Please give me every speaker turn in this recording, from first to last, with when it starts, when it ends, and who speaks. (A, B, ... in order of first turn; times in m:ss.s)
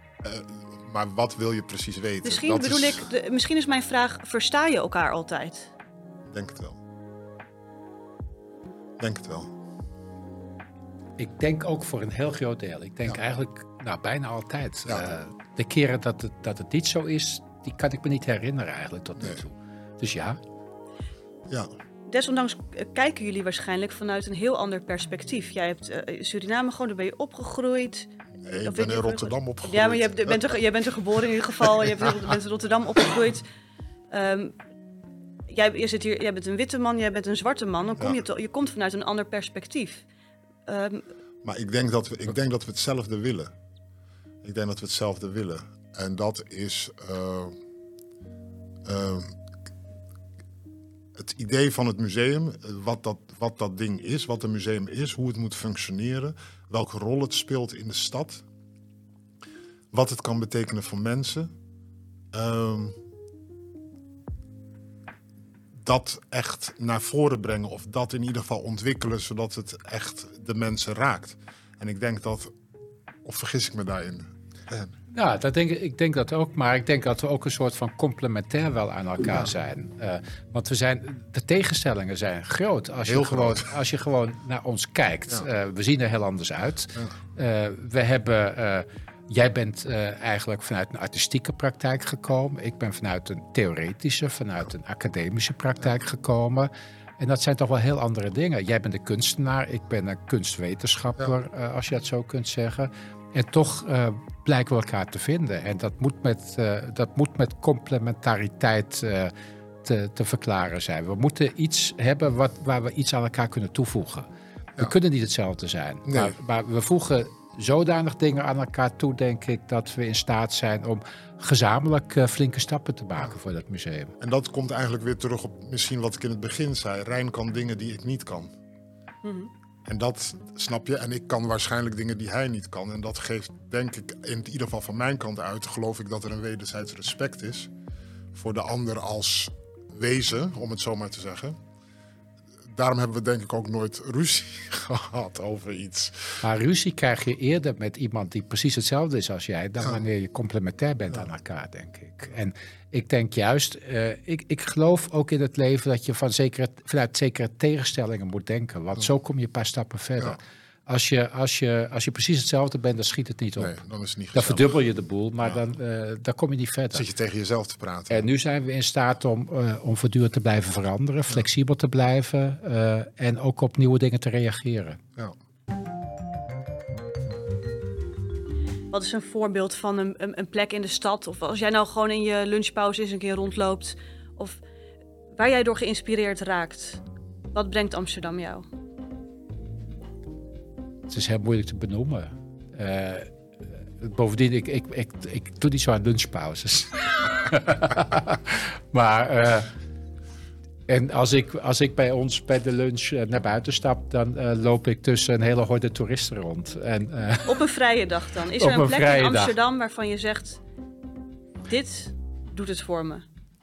0:00.2-0:03.1 A
0:02.2-0:05.7 B
0:06.3-0:06.8 A
0:09.0-0:09.6 A
0:11.2-0:20.4 C
0:22.1-0:28.1 B
0:28.4-0:30.5 A
0:28.6-0:33.5 B
0:34.1-0:34.6 B
0:35.5-0:40.0 B
0:40.7-0:41.0 B
0:41.4-0:43.5 A
0:44.4-0:47.5 A
0:48.8-0:49.3 A
0:51.2-0:58.4 A
0:59.9-1:01.5 A
1:02.3-1:03.0 A
1:05.8-1:12.5 A
1:13.2-1:14.8 A
1:15.1-1:49.3 C
1:23.1-1:23.7 A
1:49.8-2:04.1 C
1:56.1-1:56.3 A
2:04.2-2:08.5 A
2:09.2-2:09.5 B
2:09.9-2:17.7 A
2:18.3-2:21.6 A
2:22.7-2:26.4 A
2:26.4-2:43.8 C
2:43.6-2:44.8 A
2:44.3-2:47.1 C
2:46.9-2:48.3 A
2:48.1-2:55.0 C
2:58.9-3:04.6 B
3:05.4-3:07.0 B
3:07.5-3:08.7 B
3:11.1-3:13.3 C
3:14.0-3:19.7 C
3:20.9-3:27.6 C
3:27.4-3:30.6 B
3:28.6-3:29.6 C
3:31.7-3:33.2 B